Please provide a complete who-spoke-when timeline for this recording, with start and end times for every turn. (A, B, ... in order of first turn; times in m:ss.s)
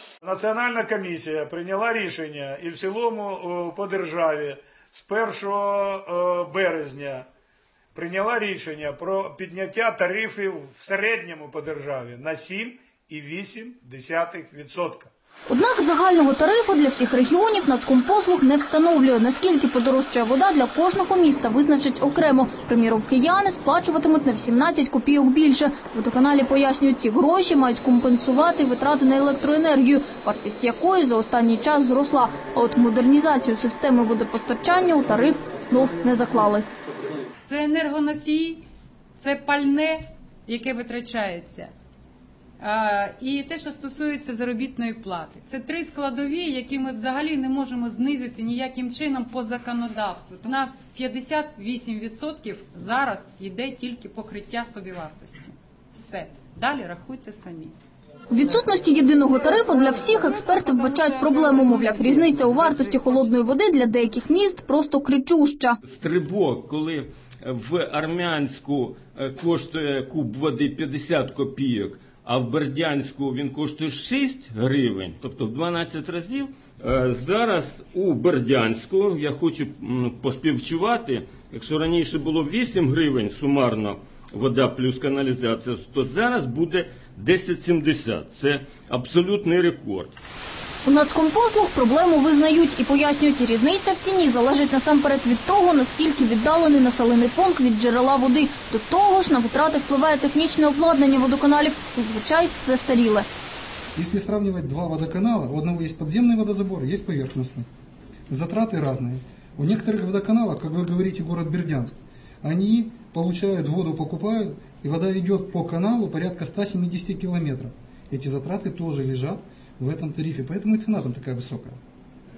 0:00.2-0:07.3 A
0:08.0-0:15.1 A
0:15.5-0:36.7 B
0:37.5-0:38.6 C
0:39.2-0:41.7 C
0:42.6-0:57.8 C
0:58.3-1:05.8 B
1:05.9-1:30.2 D
1:30.8-1:43.3 B
1:44.0-1:47.7 E
1:48.3-2:01.8 E